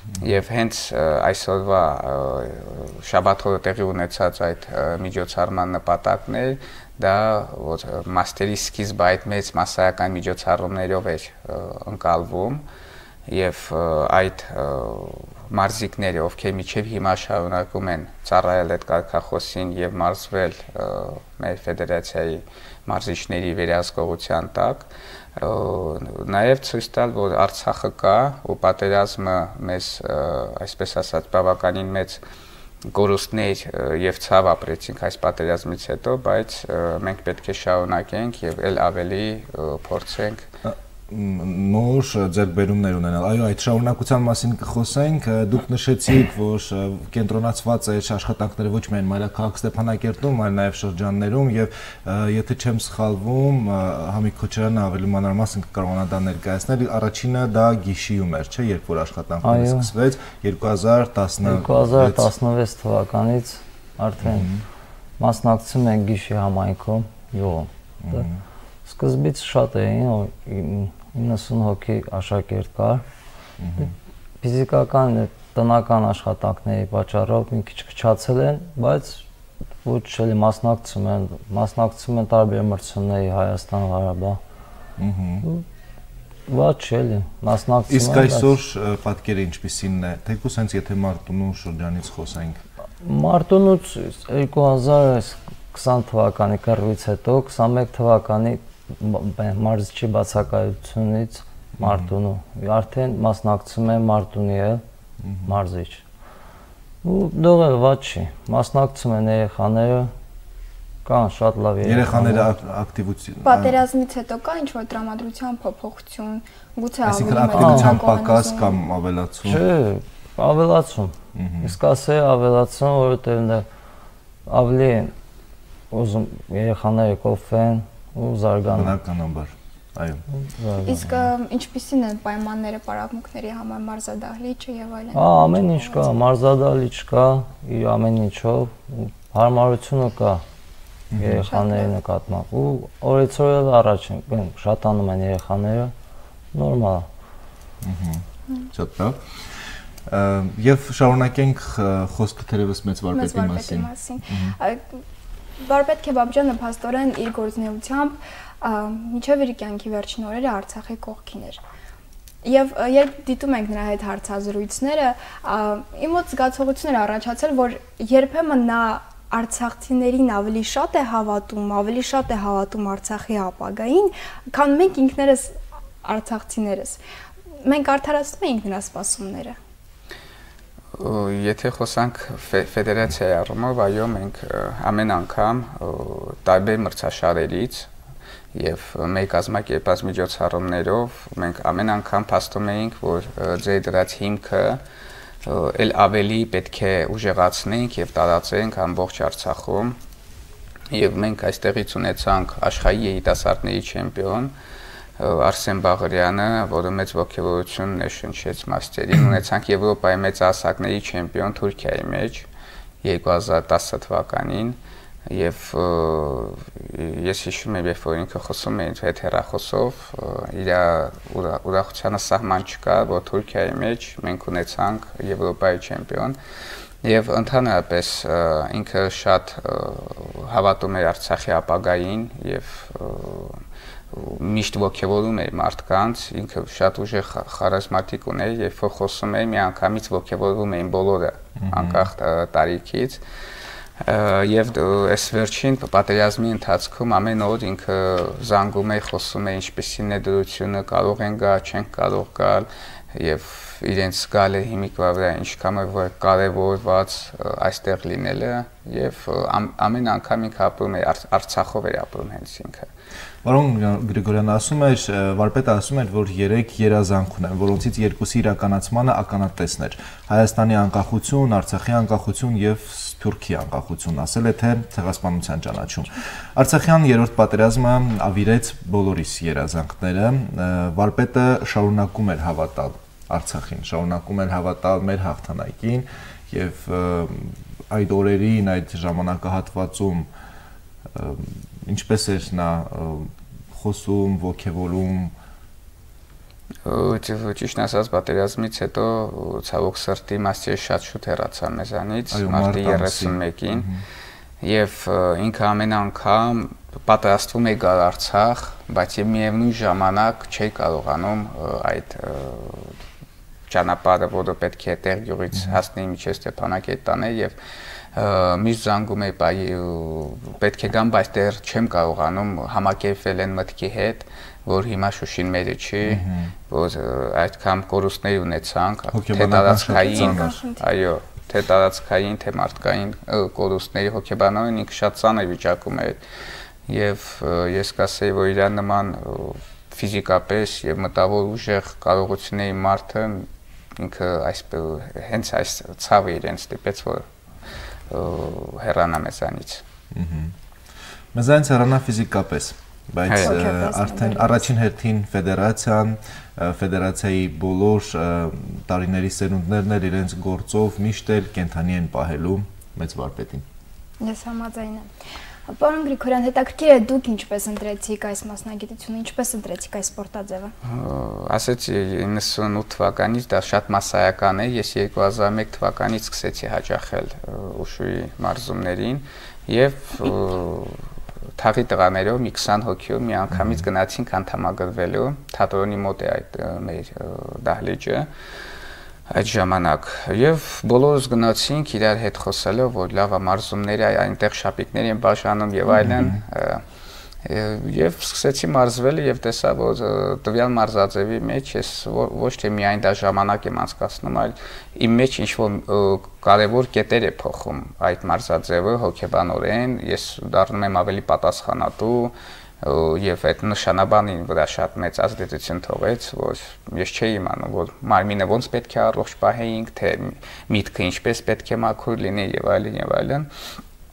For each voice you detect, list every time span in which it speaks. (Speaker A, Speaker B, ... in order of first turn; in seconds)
Speaker A: 0.2-12.6, 13.3-32.2, 32.9-40.5, 181.0-187.9, 188.5-194.8, 195.4-199.9, 200.9-204.5, 205.2-212.5, 213.0-226.4, 227.0-233.6, 234.1-243.2, 244.0-262.9, 296.8-303.9, 304.6-313.0, 313.7-317.5, 318.1-336.2, 336.9-347.2, 348.1-349.8, 353.3-353.6, 370.8-381.0, 381.6-388.3, 389.3-396.8, 397.4-423.5
Speaker B: 40.6-62.3, 64.2-64.6, 68.0-68.4, 73.6-73.9, 85.0-85.5, 87.9-92.6, 101.8-102.1, 105.2-105.5, 111.8-113.8, 117.0-119.6, 121.3-121.8, 128.7-130.2, 141.1-141.4, 147.8-149.2, 150.1-154.6, 241.6-242.1, 263.4-290.3, 291.1-295.3, 302.3-304.0, 326.0-326.5, 329.1-330.5, 350.1-350.5, 351.3-363.6, 383.5-383.8, 396.0-396.4
Speaker C: 59.4-59.9, 61.4-64.5, 65.2-68.3, 68.8-73.0, 74.4-79.2, 79.8-84.4, 86.5-88.5, 93.0-104.8, 105.5-106.0, 107.0-110.1, 111.0-112.5, 117.5-118.0, 119.4-123.7, 124.5-125.1, 125.9-129.0, 130.5-131.0, 135.1-140.4, 141.2-145.9, 146.5-147.1
Speaker D: 113.4-118.8, 130.8-136.1, 141.4-141.9, 153.1-155.0, 155.6-161.6, 162.4-175.5, 176.0-177.0, 177.6-179.6, 329.9-330.8, 353.4-354.6, 364.2-365.1, 365.7-370.7